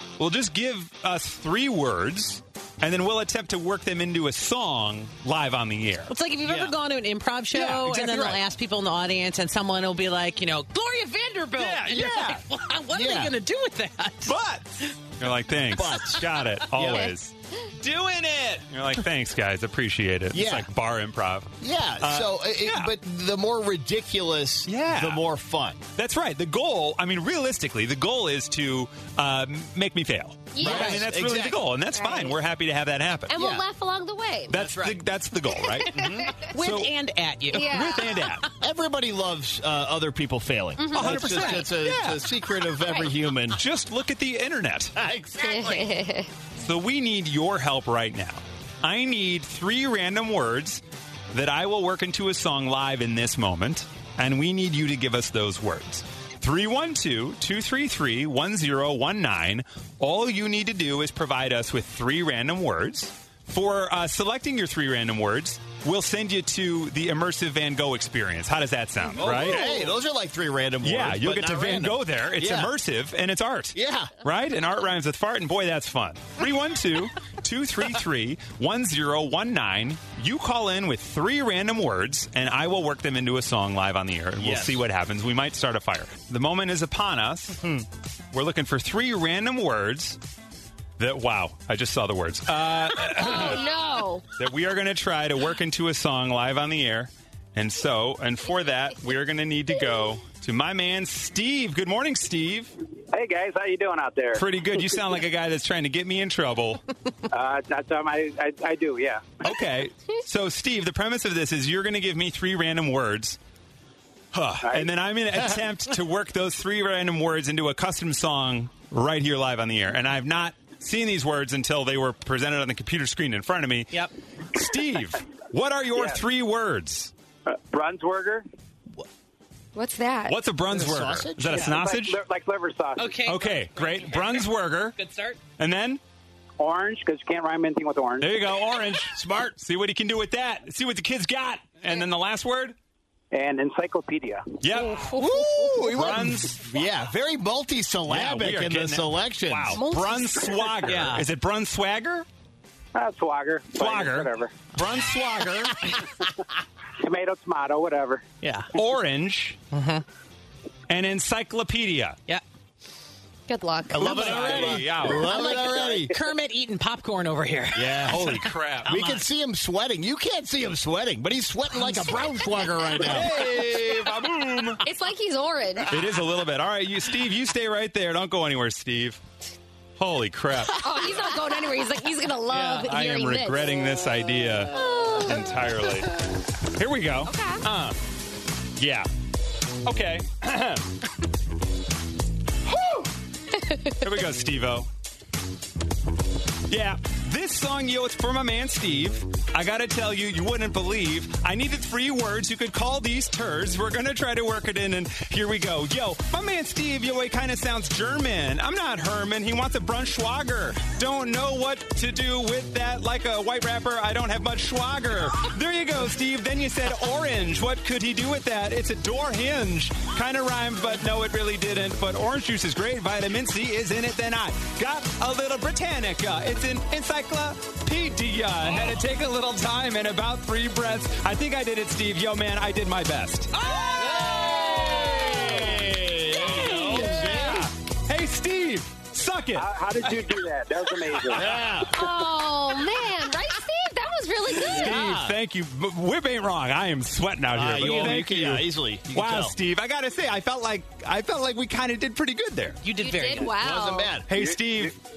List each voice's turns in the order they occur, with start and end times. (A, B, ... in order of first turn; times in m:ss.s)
0:00.2-0:06.1 A
0:06.1-0:14.9 B
0:06.4-0:06.8 C
0:07.5-0:08.4 A
0:11.6-0:12.4 A
0:12.9-0:13.3 C
0:14.2-0:22.9 A
0:15.7-0:17.1 C
0:16.9-0:17.1 D
0:20.3-0:20.7 C
0:21.6-0:25.8 C
0:24.6-0:25.2 A
0:26.0-0:33.3 A
0:30.5-0:31.0 D
0:30.6-0:31.7 C
0:31.9-0:32.3 D
0:33.3-0:34.7 D
0:33.3-0:33.6 C
0:34.5-0:36.9 A
0:34.5-0:35.0 C
0:35.5-0:36.3 D
0:35.9-0:36.4 C
0:36.5-0:37.9 B
0:37.5-0:38.4 A
0:37.5-0:38.2 D
0:38.5-0:43.6 C
0:40.8-0:41.7 D
0:40.9-0:42.2 A
0:43.5-0:44.9 A
0:45.0-0:46.0 C
0:45.4-0:46.3 D
0:46.6-1:09.9 A
1:09.1-1:12.7 C
1:10.8-1:27.7 A
1:13.7-1:14.1 C
1:24.4-1:24.8 C
1:27.6-1:27.8 C
1:28.3-1:30.2 A
1:31.0-1:33.6 A
1:33.0-1:34.2 D
1:34.4-1:42.7 A
1:43.1-1:44.4 E
1:44.3-1:46.8 A
1:47.3-1:49.3 E
1:49.4-1:53.4 A
1:54.3-2:07.1 A
1:54.6-1:54.9 E
2:07.5-2:08.4 E
2:09.7-2:10.4 D
2:10.3-2:12.2 A
2:10.7-2:12.0 C
2:11.6-2:13.3 E
2:13.0-2:15.4 B
2:13.2-2:15.0 A
2:15.6-2:16.0 A
2:16.6-2:18.4 E
2:18.2-2:22.8 A
2:19.1-2:19.6 C
2:23.3-2:24.6 E
2:24.6-2:26.6 A
2:25.0-2:25.5 D
2:25.2-2:29.8 C
2:28.1-2:32.3 A
2:29.7-2:30.7 D
2:30.8-2:31.2 B
2:32.9-2:34.5 E
2:33.7-2:35.8 A
2:37.0-2:38.2 E
2:38.4-2:38.7 B
2:38.7-2:39.6 A
2:39.7-2:40.0 B
2:40.9-2:42.2 A
2:43.5-2:44.2 D
2:43.9-2:46.1 C
2:43.9-2:45.3 A
2:44.3-2:44.7 B
2:45.2-2:49.2 B
2:45.2-2:46.1 D
2:47.7-2:53.4 C
2:48.1-2:49.0 A
2:51.7-2:52.8 B
2:53.0-2:54.8 A
2:54.8-2:55.9 D
2:55.9-2:59.2 A
3:00.0-3:00.8 A
3:00.7-3:03.7 D
3:02.5-3:08.0 A
3:04.7-3:05.6 D
3:07.2-3:07.6 D
3:08.8-3:09.1 A
3:09.8-3:10.8 A
3:12.6-3:13.1 A
3:14.0-3:14.9 A
3:16.7-3:54.4 A
3:53.6-3:57.4 D
3:54.0-3:57.7 C
3:56.4-4:00.3 A
3:59.5-4:01.5 E
4:01.1-4:01.5 A
4:01.3-4:01.9 C
4:01.9-4:04.9 D
4:04.6-4:05.3 C
4:04.7-4:12.8 A
4:07.5-4:09.5 C
4:07.8-4:08.2 B
4:12.8-4:13.5 B
4:13.0-4:14.1 D
4:13.4-4:14.3 C
4:14.3-4:14.9 A
4:14.3-4:14.9 E